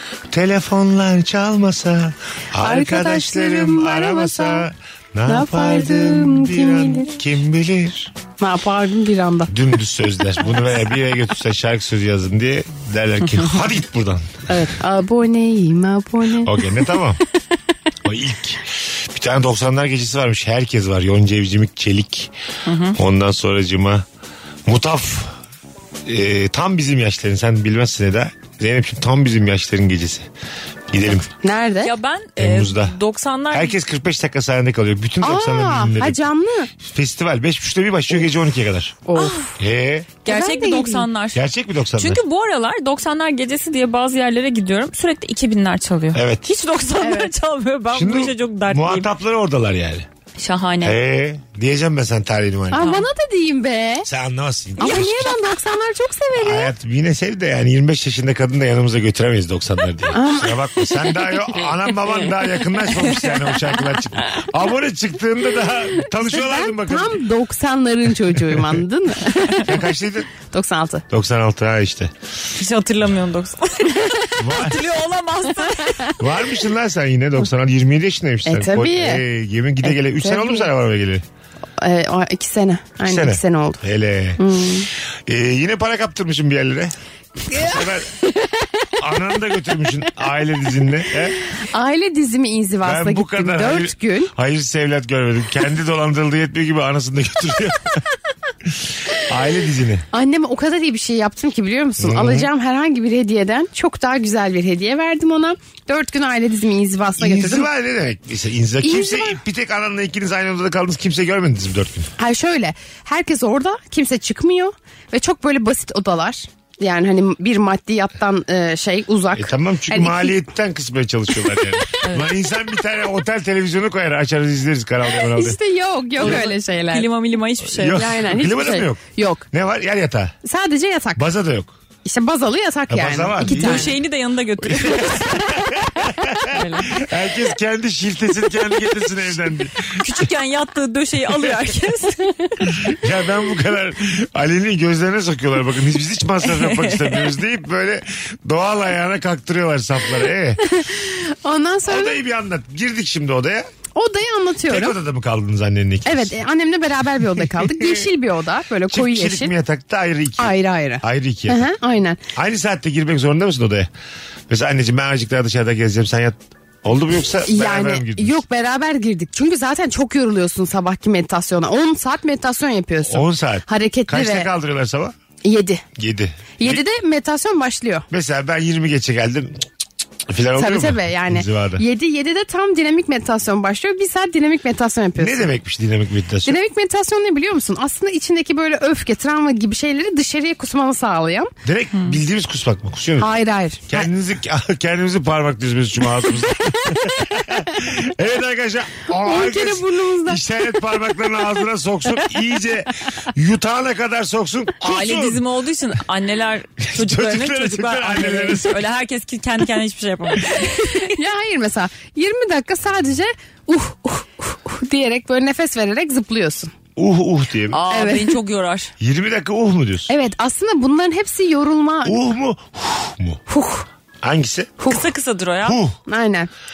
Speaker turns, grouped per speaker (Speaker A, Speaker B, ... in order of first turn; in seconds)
Speaker A: 0.3-8.1, 9.5-14.5, 16.4-17.2, 18.0-22.3, 22.9-24.0, 24.6-25.3, 26.1-30.3, 30.9-31.3, 32.4-32.9, 33.5-36.3, 36.8-39.0, 39.6-40.2, 41.3-42.2, 46.1-46.5, 47.9-50.1, 50.8-52.9, 54.0-55.4, 56.3-67.2, 68.3-68.8, 69.6-70.3, 71.1-72.1, 74.4-74.8, 76.2-81.2, 83.0-84.4, 85.2-86.9, 87.5-88.1, 89.0-91.4, 92.8-98.0, 98.6-100.0, 102.0-102.5, 107.2-112.1, 119.3-125.6, 127.7-130.3, 131.1-131.7, 132.9-133.9, 134.6-140.2, 142.6-150.6, 151.9-153.7, 154.7-156.4, 157.3-158.1, 158.9-161.7, 162.3-163.9, 164.5-168.4, 173.1-175.1, 175.9-176.8, 178.1-179.7, 180.2-181.8, 185.2-186.6, 191.6-193.3, 193.9-205.4, 206.9-208.8, 216.9-217.8, 219.0-220.1, 222.0-223.4, 224.2-224.8, 225.6-226.0
Speaker B: 2.6-4.7, 5.2-7.1, 8.4-9.5, 14.5-16.6, 31.4-31.9, 35.2-36.7, 39.0-39.4, 40.2-41.0, 47.0-47.3, 52.7-54.1, 54.8-56.7, 60.1-61.3, 66.2-69.7, 70.4-71.0, 78.5-79.2, 79.8-80.7, 81.8-83.8, 84.4-84.9, 87.5-87.8, 91.5-94.3, 100.1-107.7, 108.8-109.4, 112.2-120.4, 125.3-127.1, 127.9-129.4, 130.4-131.2, 132.0-133.9, 150.6-152.2, 153.9-154.9, 156.1-159.5, 160.4-162.2, 167.4-174.5, 175.4-175.8, 176.6-178.1, 180.6-185.5, 186.4-191.5, 193.2-194.1, 199.2-200.4, 210.9-216.7, 217.9-218.3, 220.1-222.2, 223.5-223.8, 226.1-226.5
Speaker C: 22.6-23.0, 31.8-33.7, 39.1-39.6, 40.2-41.4, 42.0-49.1, 50.4-51.0, 52.8-53.0, 72.6-76.2, 126.2-128.2, 133.4-135.8, 136.5-137.0, 140.0-142.5, 146.4-147.3, 204.8-211.2, 217.7-218.9, 224.9-225.8